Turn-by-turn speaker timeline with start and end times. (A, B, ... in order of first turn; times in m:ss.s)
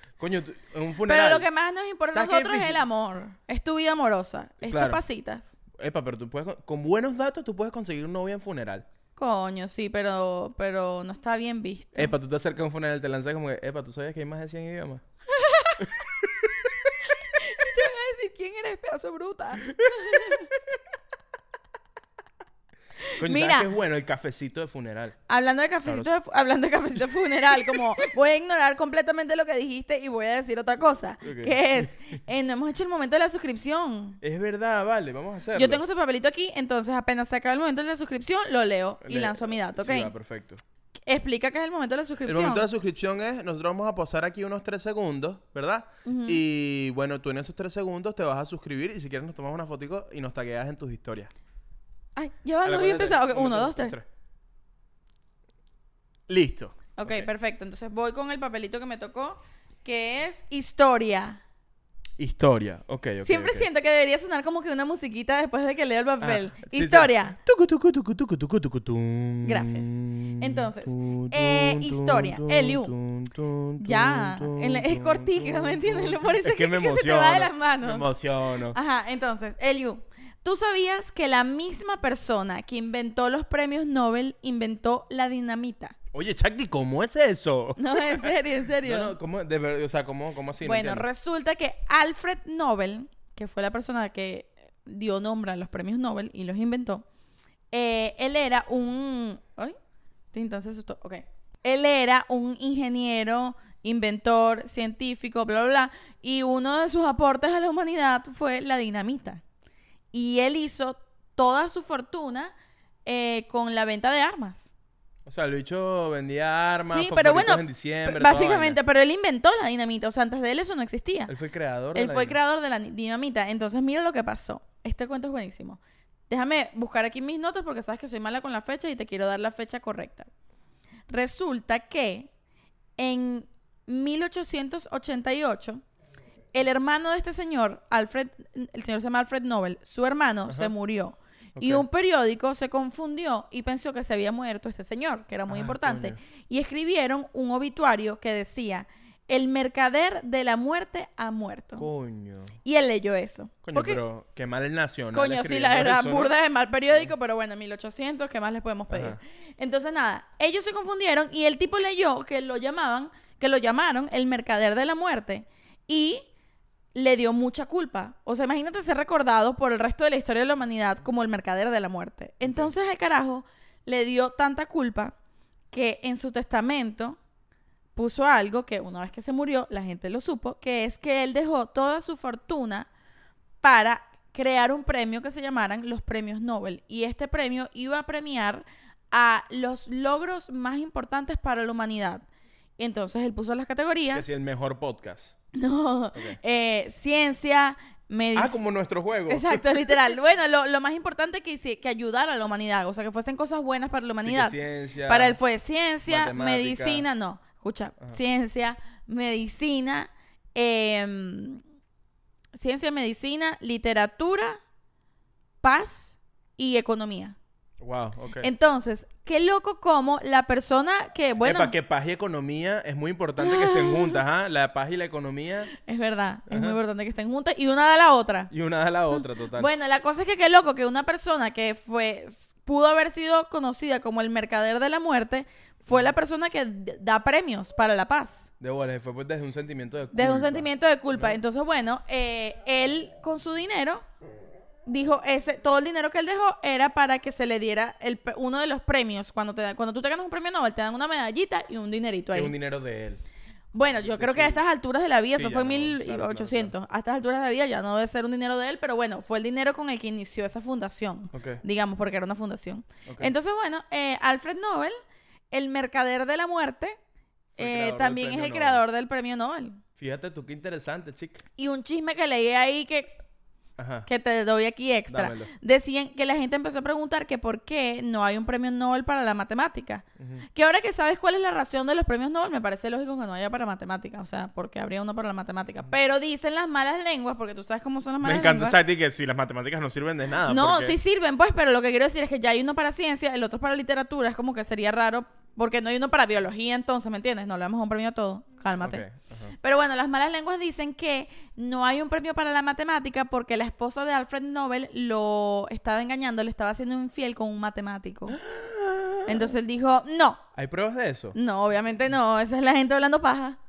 0:00.2-0:01.5 A
0:01.0-0:05.6 B
0:02.1-0:02.8 A
0:04.6-0:05.0 A
0:05.8-0:08.9 A
0:09.2-0:12.1 B
0:11.9-0:15.0 A
0:15.3-0:15.9 B
0:15.8-0:16.9 A
0:17.1-0:20.5 B
0:19.8-0:20.4 A
0:23.0-0:23.7 B
0:23.2-0:25.2 A
0:25.3-0:34.2 B
0:25.9-0:26.1 A
0:27.5-0:27.8 A
0:31.2-0:31.9 A
0:34.2-0:35.8 A
0:35.5-0:40.1 B
0:39.0-0:40.6 A
0:41.0-0:42.7 B
0:42.2-0:51.3 A
0:46.0-0:46.4 B
0:52.1-0:53.9 B
0:52.6-0:54.0 A
0:56.3-0:57.3 A
0:57.0-1:01.4 B
1:02.2-1:03.7 A
1:03.2-1:07.4 B
1:06.2-1:18.8 A
1:09.4-1:12.9 B
1:13.8-1:18.1 B
1:18.7-1:26.0 B
1:26.1-1:31.0 A
1:27.8-1:29.1 B
1:30.6-1:37.0 B
1:37.7-1:39.7 B
1:40.3-1:49.4 B
1:50.1-1:52.5 B
1:53.0-1:54.7 B
1:55.3-1:58.8 A
1:56.9-2:01.3 B
2:01.3-2:02.4 A
2:01.9-2:10.3 B
2:11.1-2:12.3 B
2:13.0-2:15.8 B
2:16.5-2:31.9 B
2:21.6-2:21.8 A
2:25.5-2:26.2 A
2:31.8-2:32.6 A
2:32.6-2:34.0 B
2:33.6-2:36.3 A
2:35.1-2:46.2 B
2:38.9-2:39.2 A
2:46.9-2:55.1 B
2:52.4-2:52.7 A
2:55.7-2:57.2 B
2:58.0-3:02.9 B
3:03.6-3:12.2 B
3:12.8-3:14.3 B
3:14.1-3:15.3 A
3:15.5-3:18.6 B
3:18.3-3:20.0 A
3:19.3-3:31.6 B
3:24.2-3:25.4 A
3:26.1-3:27.0 A
3:32.5-3:34.6 B
3:35.6-3:37.4 B
3:37.8-3:38.5 A
3:38.4-3:41.7 B
3:41.4-3:45.7 A
3:43.4-3:44.2 B
3:45.7-3:48.5 B
3:46.5-3:46.8 A
3:48.5-3:49.7 A
3:49.1-3:58.5 B
3:58.6-4:01.4 A
4:00.1-4:04.0 B
4:04.9-4:12.5 B
4:12.3-4:13.2 A
4:13.7-4:25.0 B
4:14.0-4:14.6 A
4:15.4-4:16.7 A
4:21.3-4:21.6 A
4:23.0-4:23.3 A
4:25.5-4:27.0 B
4:27.6-4:28.8 A
4:27.6-4:29.8 B
4:30.0-4:31.4 A
4:31.6-4:33.2 B
4:33.8-4:34.1 A
4:34.0-4:48.8 B
4:35.1-4:35.5 A
4:40.2-4:40.4 A
4:48.2-4:51.0 A
4:50.4-4:59.0 B
4:58.8-4:59.5 A
4:59.6-5:08.4 B
5:08.3-5:09.5 A
5:09.2-5:10.4 B
5:10.6-5:11.4 A
5:11.3-5:13.6 B